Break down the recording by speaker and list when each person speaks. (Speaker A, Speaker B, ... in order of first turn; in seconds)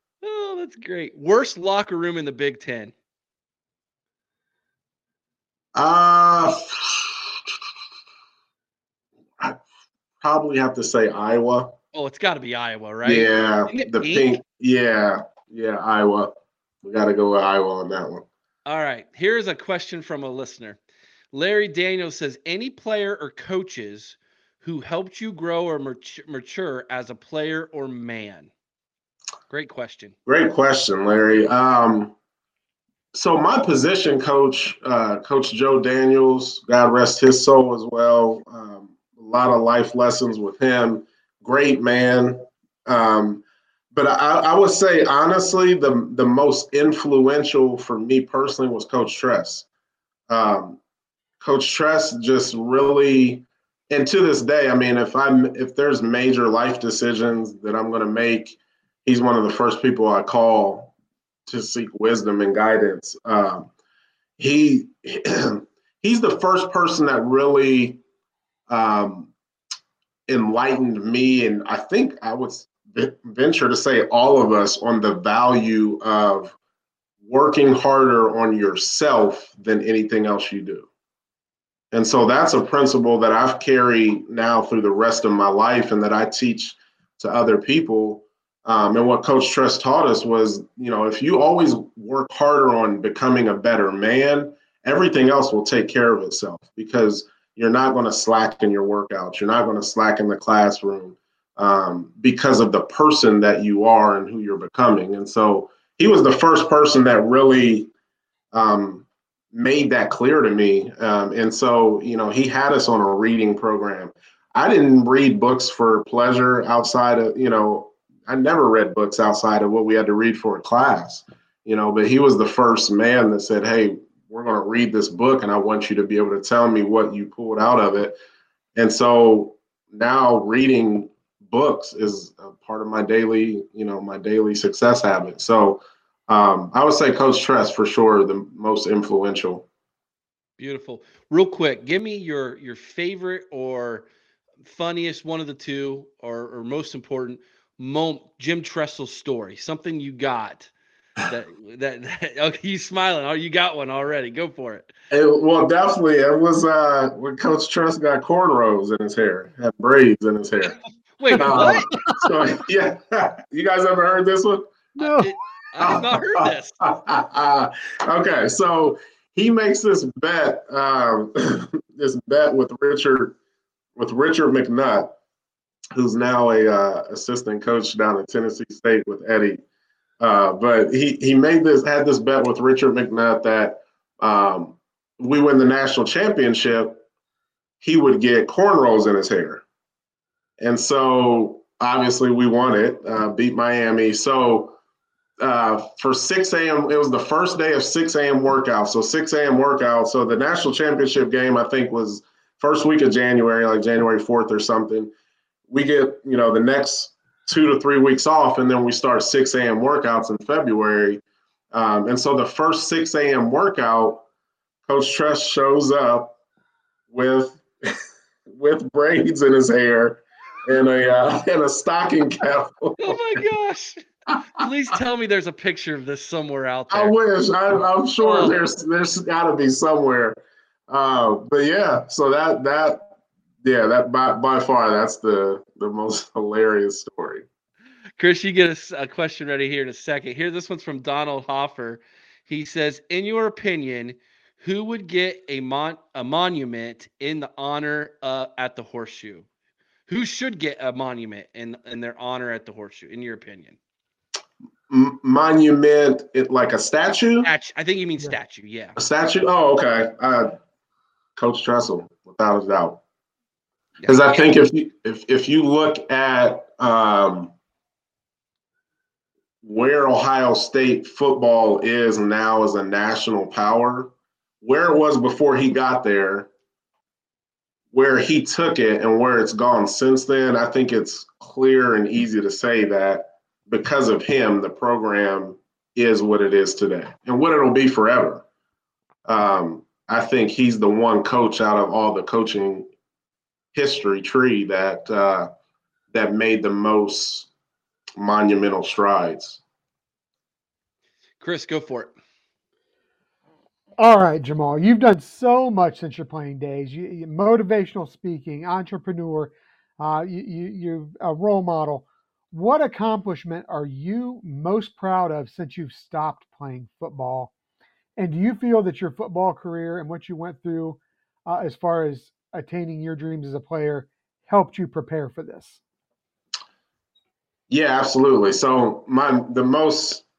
Speaker A: 0.2-2.9, 11.9-14.4, 18.6-20.8, 21.3-28.5, 29.5-30.1, 140.6-144.1, 144.6-150.7, 151.3-154.9, 161.2-161.9, 165.0-166.8, 223.0-224.0, 224.6-227.1, 228.2-228.6, 238.2-249.4, 250.1-253.8, 257.4-258.9, 264.0-264.5, 301.4-302.1
Speaker B: 5.7-7.2, 10.2-11.8, 13.0-16.3, 16.8-18.2, 30.2-32.1, 33.1-43.4, 43.9-49.7, 50.3-50.8, 51.4-60.9, 61.5-63.7, 64.4-68.0, 68.7-69.3, 70.3-76.5, 77.2-80.9, 81.9-107.9, 108.5-128.2, 128.8-139.7, 155.1-160.8, 161.3-164.8, 165.8-173.4, 173.9-175.1, 175.9-179.6, 180.2-187.0, 187.8-189.6, 190.6-194.8, 195.4-205.1, 205.7-214.2, 214.9-216.4, 217.1-218.0, 218.5-223.2, 226.9-230.4, 230.9-233.1, 233.6-237.4, 254.9-257.5, 259.0-260.6, 261.4-263.0, 264.1-267.5, 269.6-276.5, 277.9-288.4, 289.2-292.9, 293.7-295.5, 296.1-297.5, 298.2-299.6, 327.7-330.2
Speaker C: 161.4-162.1, 165.0-165.3, 304.0-317.5, 318.1-325.8